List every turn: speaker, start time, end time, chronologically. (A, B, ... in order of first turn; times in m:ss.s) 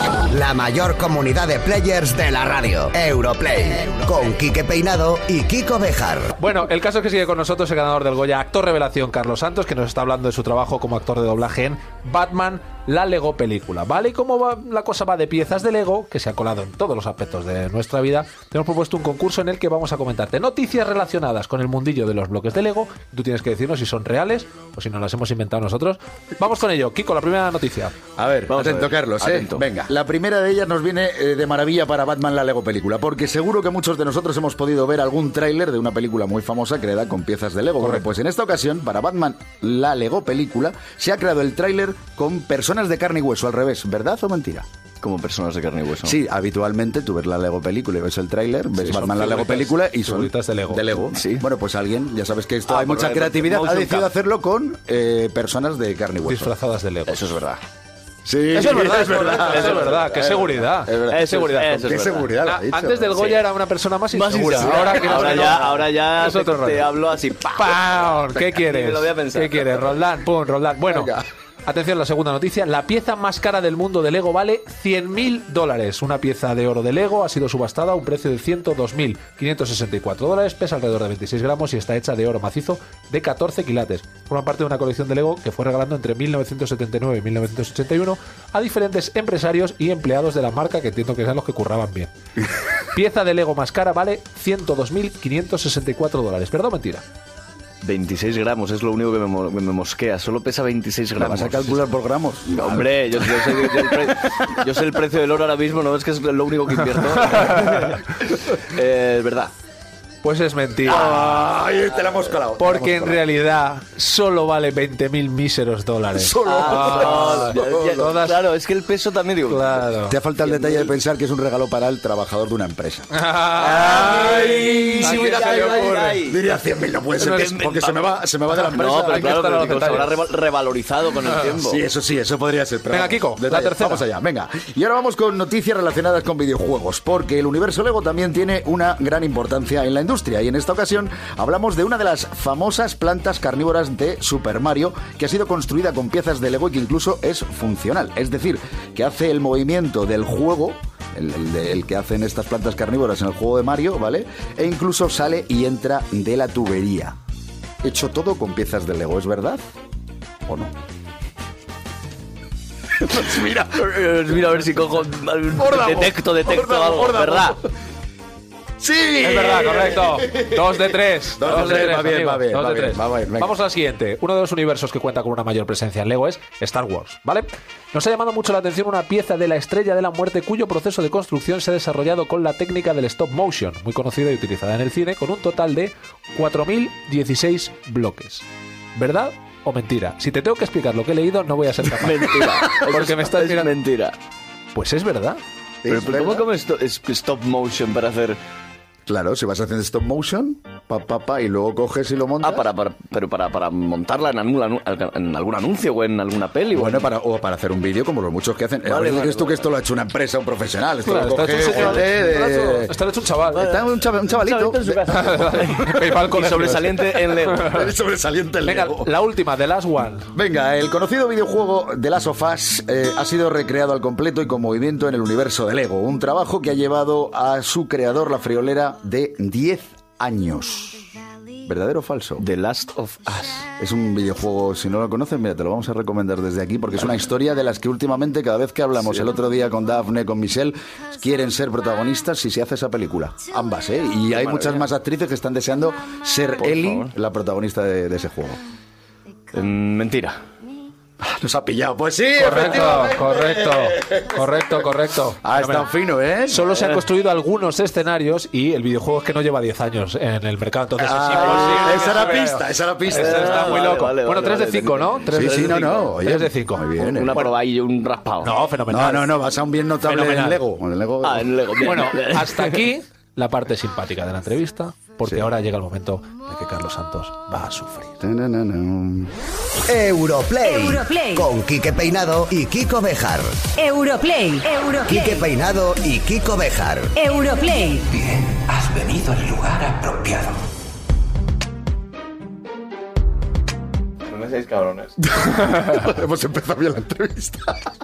0:00.3-0:06.3 A
0:06.3-0:27.9 B
0:28.2-0:44.6 C
0:28.5-0:29.6 D
0:37.8-0:38.1 B
0:45.0-0:46.2 D
0:46.0-0:56.5 C
0:48.7-0:50.9 B
0:51.1-0:51.4 D
0:52.7-0:54.1 D
0:56.2-0:57.3 B
0:57.1-0:57.6 D
0:58.2-1:03.2 C
0:58.5-1:01.8 B
0:58.7-1:02.3 D
1:02.4-1:06.8 B
1:03.1-1:03.4 D
1:04.1-1:09.9 D
1:04.4-1:05.8 C
1:07.6-1:11.1 B
1:10.8-1:11.2 C
1:11.6-1:32.1 B
1:32.9-1:37.0 B
1:37.8-1:41.8 D
1:41.2-1:44.6 C
1:42.5-1:49.5 D
1:50.2-1:51.4 B
1:50.8-1:53.2 C
1:50.9-1:51.4 D
1:52.6-1:58.4 B
1:56.1-1:58.1 C
1:56.4-2:00.9 D
1:59.5-2:00.2 B
2:00.1-2:05.7 C
2:03.1-2:06.2 B
2:03.6-2:06.4 D
2:06.2-2:10.0 C
2:07.2-2:07.6 B
2:07.2-2:11.8 D
2:08.9-2:10.2 B
2:11.6-2:37.2 C
2:12.9-2:14.0 B
2:37.8-2:39.6 C
2:40.4-2:40.7 C
2:43.0-2:43.8 C
2:43.7-2:47.6 D
2:45.6-2:47.6 C
2:48.8-2:53.5 C
2:49.2-3:13.7 B
3:11.9-3:14.2 D
3:14.7-3:15.4 B
3:15.8-3:16.4 C
3:15.9-3:18.4 D
3:19.1-3:22.7 C
3:22.4-3:27.1 D
3:26.7-3:33.0 C
3:28.8-3:29.7 D
3:31.0-3:33.7 B
3:31.7-3:32.0 D
3:33.5-3:37.9 D
3:33.5-3:35.7 C
3:35.1-3:37.6 B
3:37.5-3:39.1 C
3:38.6-3:40.3 B
3:40.3-3:51.0 C
3:51.6-3:52.4 C
3:52.4-3:53.7 D
3:53.8-4:08.6 C
4:04.3-4:04.9 D
4:06.6-4:07.1 D
4:09.5-4:10.4 D
4:11.2-4:14.6 C
4:12.4-4:15.9 B
4:15.4-4:16.6 C
4:16.5-4:27.5 B
4:16.6-4:17.0 D
4:21.0-4:23.9 C
4:21.3-4:22.2 D
4:23.1-4:26.1 D
4:25.3-4:27.4 C
4:27.0-4:28.5 D
4:28.4-4:29.3 B
4:28.9-4:31.5 C
4:30.0-4:30.6 B
4:31.2-4:32.8 D
4:31.8-4:38.2 B
4:38.2-4:39.3 C
4:39.9-4:44.1 A
4:40.8-4:41.4 E
4:43.8-4:45.3 E
4:45.0-4:47.4 A
4:47.2-4:48.2 E
4:48.2-4:50.5 F
4:54.3-4:55.2 D
4:55.2-4:57.9 C